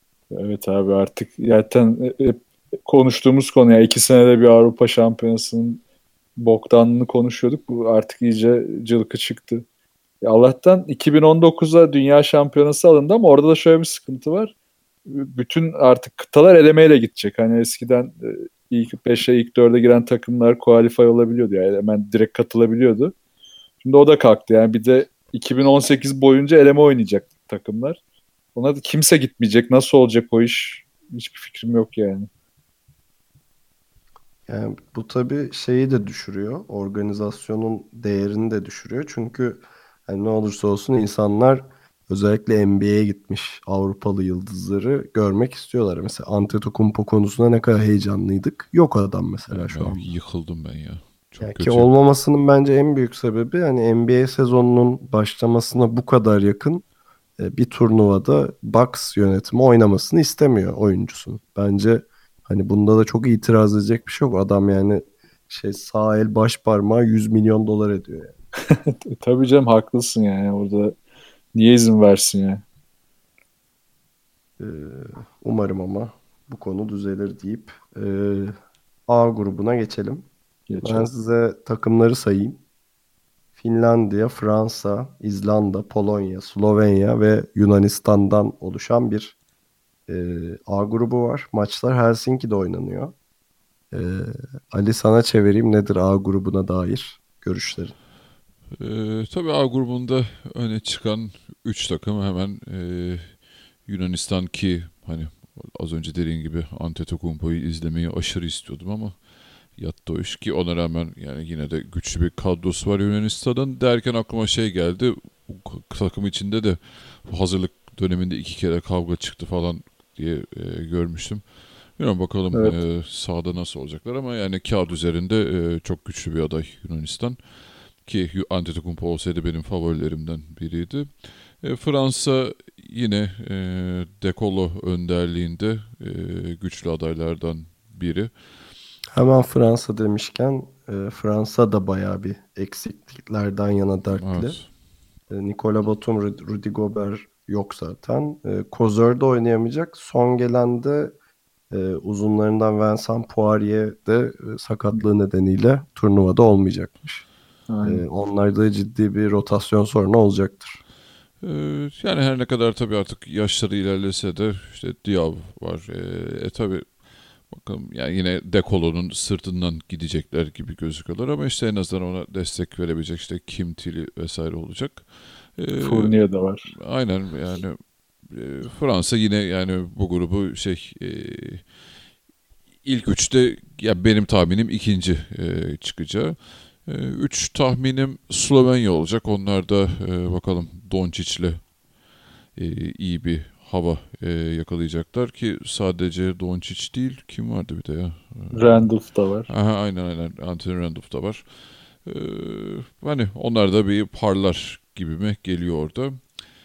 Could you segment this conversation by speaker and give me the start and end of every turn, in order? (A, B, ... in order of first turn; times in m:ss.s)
0:00.3-0:05.8 A
0:06.4-0:09.6 A
0:10.2-0:14.5 A
0:15.1-0:23.1 A
0:23.8-0:28.0 A
0:28.5-0:32.3 A
0:34.5-0:50.1 B
0:49.5-0:51.9 C
0:51.4-0:56.8 B
0:57.4-1:08.3 B
1:08.7-1:11.0 A
1:11.5-1:12.6 A
1:14.6-1:18.5 B
1:19.1-1:20.3 B
1:20.7-1:21.1 A
1:20.8-1:22.6 B
1:23.6-1:29.3 B
1:30.1-1:33.1 B
1:33.9-1:38.0 B
1:38.8-2:07.4 C
2:08.0-2:18.3 C
2:19.1-2:24.6 B
2:24.1-2:24.6 C
2:25.3-2:31.1 B
2:31.7-2:37.2 B
2:37.7-2:38.0 A
2:37.8-2:40.8 B
2:41.4-2:56.2 C
2:55.8-2:56.7 A
2:56.7-3:01.7 C
3:02.8-3:11.7 C
3:12.5-3:19.0 C
3:18.5-3:19.5 A
3:19.5-3:26.3 C